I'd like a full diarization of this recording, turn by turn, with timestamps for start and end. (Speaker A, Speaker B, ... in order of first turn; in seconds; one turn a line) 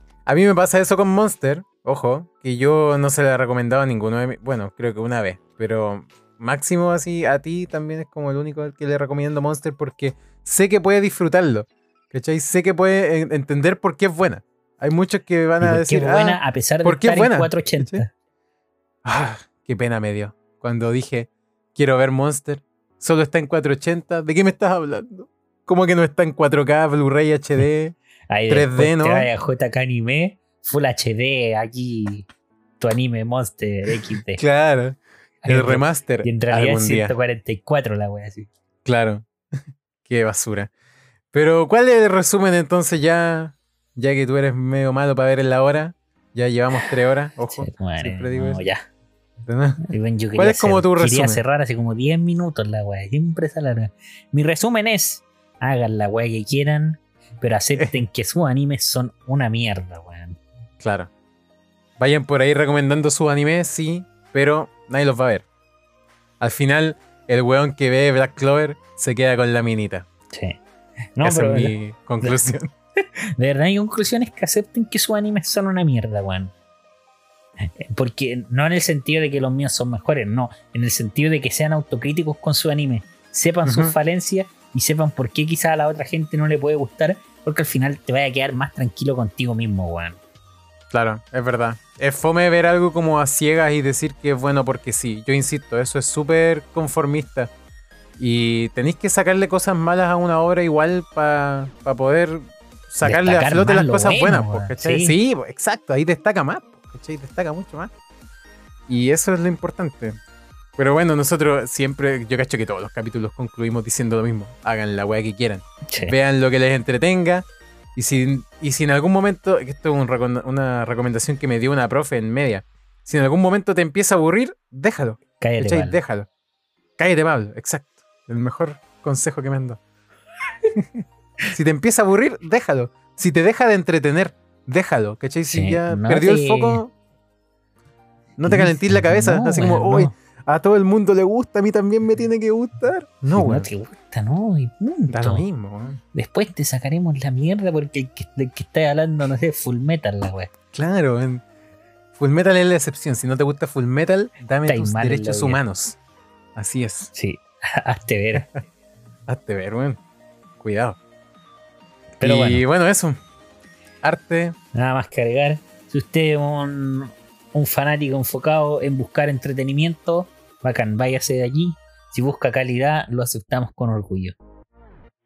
Speaker A: 0.2-18.0
Speaker B: 15.6-18.1
Speaker A: 19.0-27.9
Speaker B: 28.3-32.3
Speaker A: 28.5-29.3
Speaker B: 32.8-34.4
Speaker A: 34.4-37.1
Speaker B: 35.4-38.5
Speaker A: 38.8-39.3
Speaker A: 40.0-40.7
Speaker A: 41.3-48.6
Speaker B: 47.6-48.8
Speaker A: 49.5-49.8
Speaker B: 49.8-60.4
Speaker A: 50.4-51.4
Speaker A: 60.8-61.1
Speaker A: 62.0-65.5
Speaker A: 66.4-70.1
Speaker B: 70.3-70.6
Speaker B: 71.2-72.3
Speaker A: 71.2-72.7
Speaker B: 73.4-76.5
Speaker B: 77.6-90.2
Speaker A: 83.7-83.9
Speaker A: 90.9-97.5
Speaker A: 98.2-107.9
Speaker B: 103.0-105.2
Speaker A: 108.9-110.2
Speaker A: 110.8-126.3
Speaker B: 115.9-116.1
Speaker B: 125.4-126.0
Speaker A: 127.0-129.8
Speaker A: 131.5-136.9
Speaker B: 135.4-136.8
Speaker A: 138.4-143.7
Speaker B: 138.4-140.1
Speaker B: 143.3-145.4
Speaker A: 145.1-146.0
Speaker B: 146.1-150.5
Speaker A: 150.7-151.4
Speaker A: 152.2-156.0
Speaker B: 154.7-155.6
Speaker A: 156.6-157.1
Speaker B: 157.1-158.5
Speaker A: 159.3-160.0
Speaker A: 160.6-161.0
Speaker B: 162.2-162.6
Speaker A: 162.2-163.2
Speaker A: 164.0-164.6
Speaker B: 164.7-174.3